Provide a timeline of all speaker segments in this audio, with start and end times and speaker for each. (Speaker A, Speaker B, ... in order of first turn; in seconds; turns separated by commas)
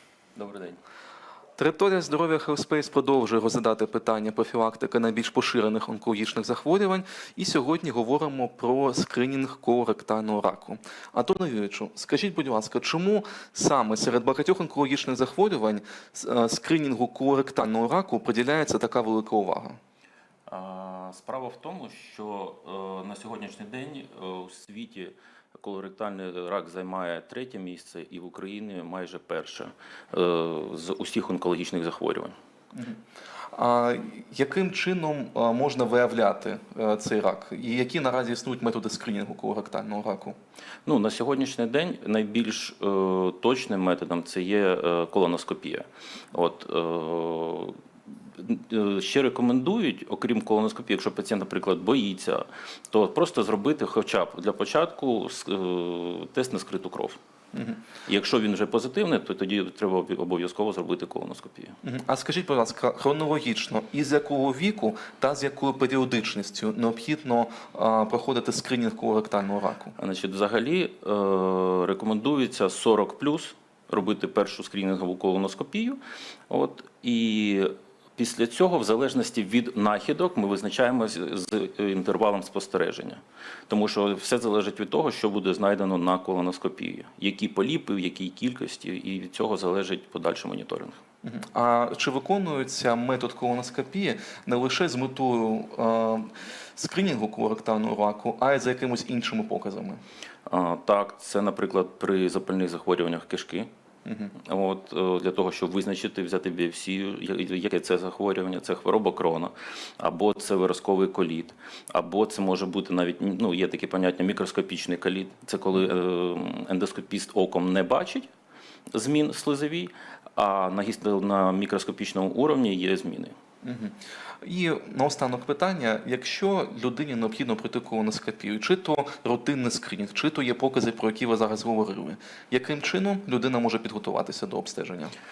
Speaker A: 0.3-0.8, Speaker B: 1.6-19.8, Speaker A: 20.5-32.3, Speaker B: 33.5-40.3, Speaker A: 40.9-47.8, Speaker A: 48.3-57.2, Speaker A: 58.0-61.8, Speaker B: 61.8-69.9, Speaker A: 70.0-91.0, Speaker B: 91.2-100.0, Speaker A: 100.5-103.7, Speaker B: 104.0-104.3, Speaker A: 104.4-118.3, Speaker A: 118.9-123.3, Speaker B: 123.6-135.1